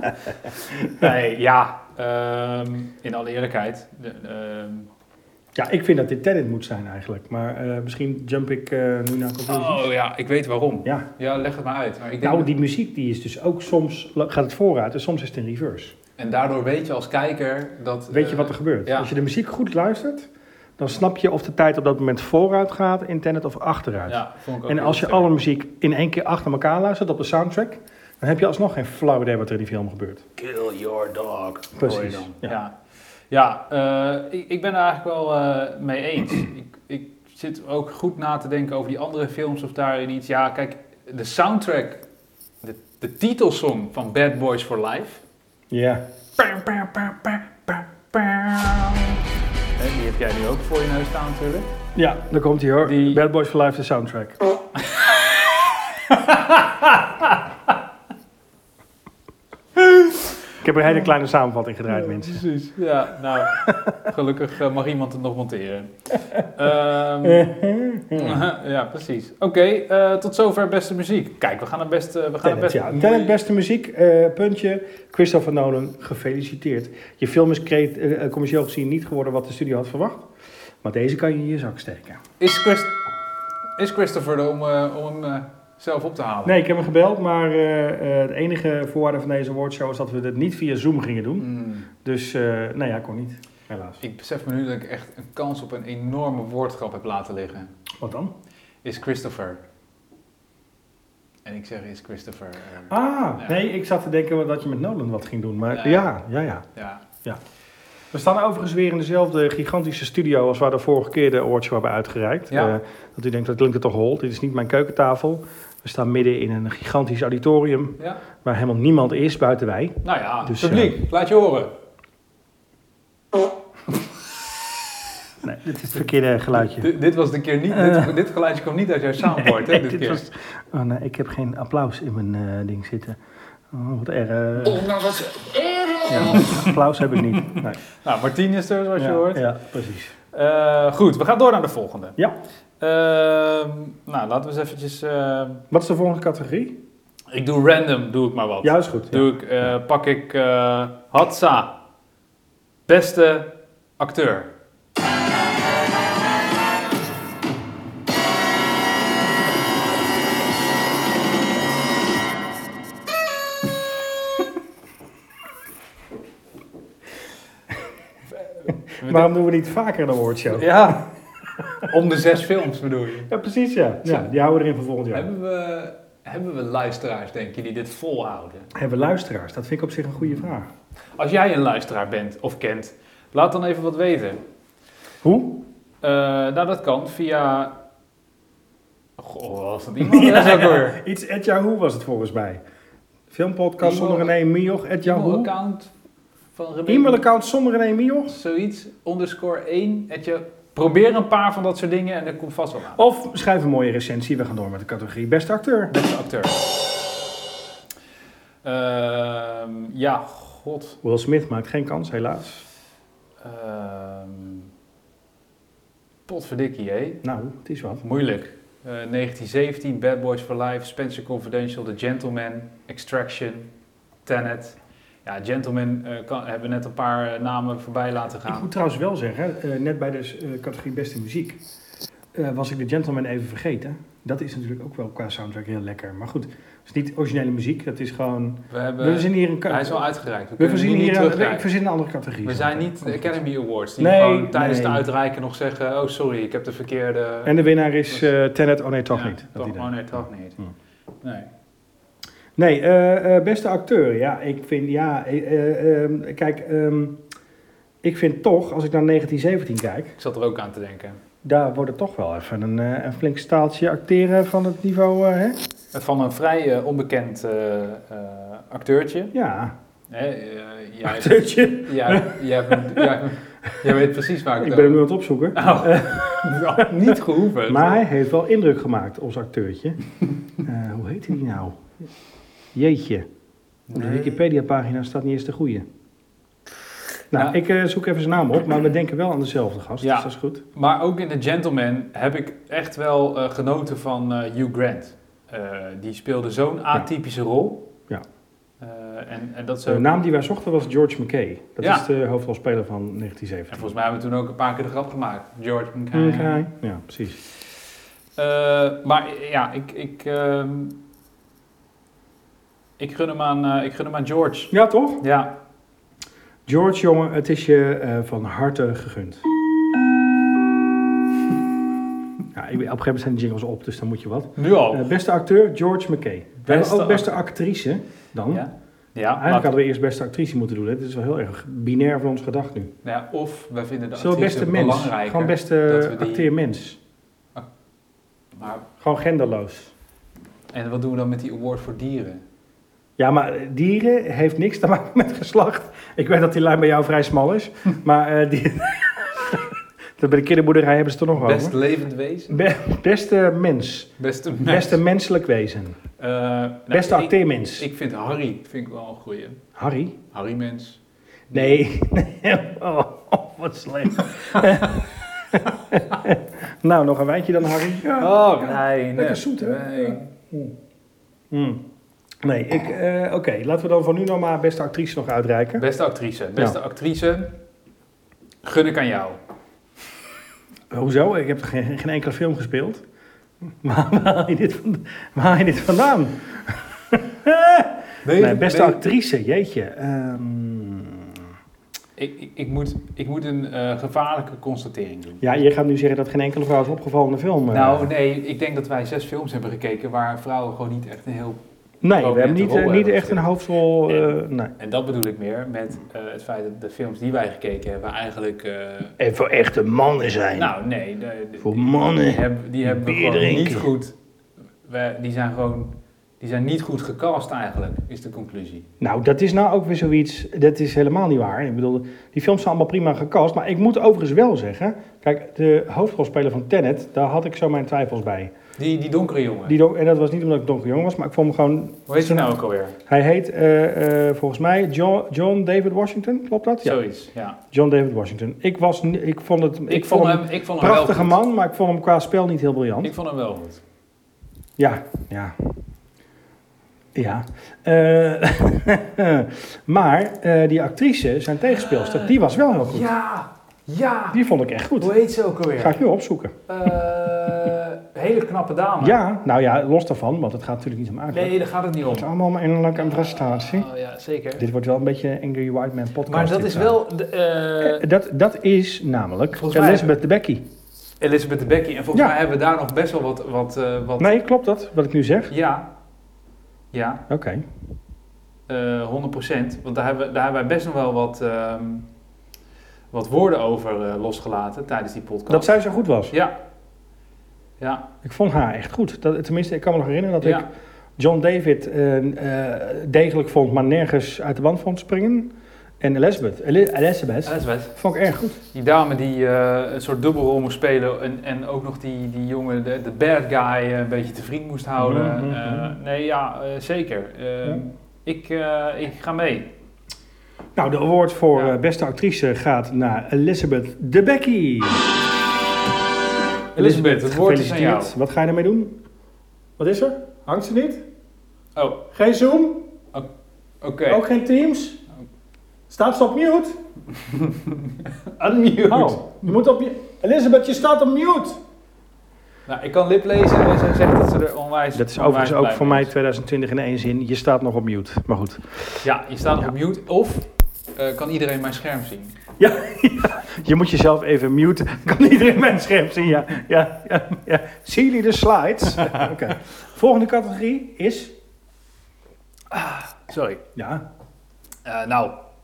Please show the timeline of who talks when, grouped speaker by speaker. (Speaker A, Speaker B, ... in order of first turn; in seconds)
Speaker A: 0.3-4.9, 9.5-12.5, 16.2-19.1, 24.1-25.4, 30.4-32.8, 33.3-42.0, 42.6-45.2, 46.4-49.2, 49.8-51.7, 52.8-53.2, 54.8-57.7, 59.9-60.3, 61.9-67.5, 68.1-73.3, 82.4-83.0, 83.8-86.6, 91.4-91.9, 94.0-97.8, 98.8-99.6, 101.5-103.6, 105.7-106.1, 106.8-107.0, 112.5-112.8, 120.0-121.7, 126.5-130.3, 136.0-136.7, 137.4-139.4, 140.3-142.2, 142.8-145.6, 147.3-151.8, 152.9-154.5, 168.7-169.3, 170.5-171.1, 171.8-173.3, 175.1-178.7, 181.2-184.4, 186.0-187.7, 189.2-191.0, 193.8-194.3, 195.0-195.9, 196.5-197.2, 198.3-203.0, 205.9-206.6, 208.6-211.0, 213.4-214.7, 216.3-217.2, 218.0-223.7, 224.3-228.7, 238.7-241.7, 242.4-247.6, 249.1-250.6, 251.2-251.5, 260.2-261.2, 265.9-269.3, 270.1-275.0, 275.6-278.1, 283.9-284.4, 290.0-297.9, 298.8-300.1, 301.8-302.1, 303.7-306.6, 308.4-310.9, 313.0-315.5, 324.6-325.1, 326.6-327.4, 328.5-329.7, 333.0-336.5, 338.6-338.9, 340.7-342.4, 351.3-352.6, 354.2-355.0, 356.2-359.6, 360.3-361.0, 361.5-361.8, 368.2-370.3, 375.8-377.5, 378.6-379.4, 388.2-389.0, 392.2-395.4, 397.7-401.6, 402.2-403.5, 404.1-409.1, 410.6-414.1, 414.8-418.9, 428.8-429.8, 432.1-433.0, 436.8-437.6, 439.9-441.4, 443.0-443.8, 451.7-454.4, 455.0-456.0, 456.7-459.2, 461.3-462.3, 462.9-464.6, 466.3-468.1, 469.5-470.1, 471.2-474.3, 475.5-475.9, 476.9-477.2, 478.7-482.1, 483.1-485.7, 487.8-488.1, 490.4-490.7, 497.4-497.9, 498.7-509.7, 516.8-518.2, 521.8-522.0, 523.8-524.2, 527.3-529.3, 532.7-536.1, 539.0-542.4, 552.7-553.6, 554.9-555.4
Speaker B: 5.5-9.9, 12.2-15.9, 18.1-30.2, 31.8-32.6, 45.7-46.0, 52.0-54.4, 60.6-62.4, 63.5-63.9, 67.2-68.4, 72.4-80.3, 80.8-82.2, 86.5-94.0, 98.0-98.3, 102.9-106.7, 108.1-121.0, 125.4-126.9, 127.7-128.1, 129.2-133.2, 133.7-135.1, 136.1-137.8, 139.0-140.2, 145.7-146.8, 148.6-149.3, 169.0-171.0, 171.6-171.9, 173.3-175.3, 178.8-180.7, 185.2-185.6, 190.0-192.6, 193.3-195.5, 196.9-198.3, 202.9-205.9, 211.0-212.7, 217.2-218.0, 228.5-231.6, 232.3-240.1, 240.6-243.4, 244.0-245.1, 247.4-249.9, 252.6-257.2, 258.0-260.1, 261.4-265.6, 269.3-269.7, 271.1-273.2, 274.6-280.0, 280.6-281.9, 282.7-283.3, 283.9-285.9, 287.3-290.6, 299.9-303.9, 306.1-307.4, 314.7-315.2, 316.7-319.4, 322.5-328.6, 329.4-332.9, 334.1-337.0, 339.0-339.9, 343.2-351.8, 352.5-354.1, 354.6-356.0, 356.9-357.9, 359.8-360.2, 361.5-370.7, 371.5-371.8, 372.4-375.8, 380.9-383.0, 383.8-391.4, 395.4-398.1, 402.0-404.7, 409.2-410.7, 411.6-413.9, 419.0-428.5, 429.7-437.0, 437.7-443.1, 444.8-445.7, 447.1-453.1, 454.3-455.1, 455.8-456.5, 459.0-463.9, 464.6-467.0, 467.8-470.6, 474.2-475.5, 477.3-477.6, 485.5-486.3, 488.2-490.7, 491.2-495.5, 496.0-498.6, 505.0-505.9, 510.8-515.1, 516.8-519.0, 519.8-521.0, 522.1-522.9, 524.1-525.0, 525.9-526.8, 528.9-531.6, 534.9-539.0, 542.6-551.3, 553.8-554.0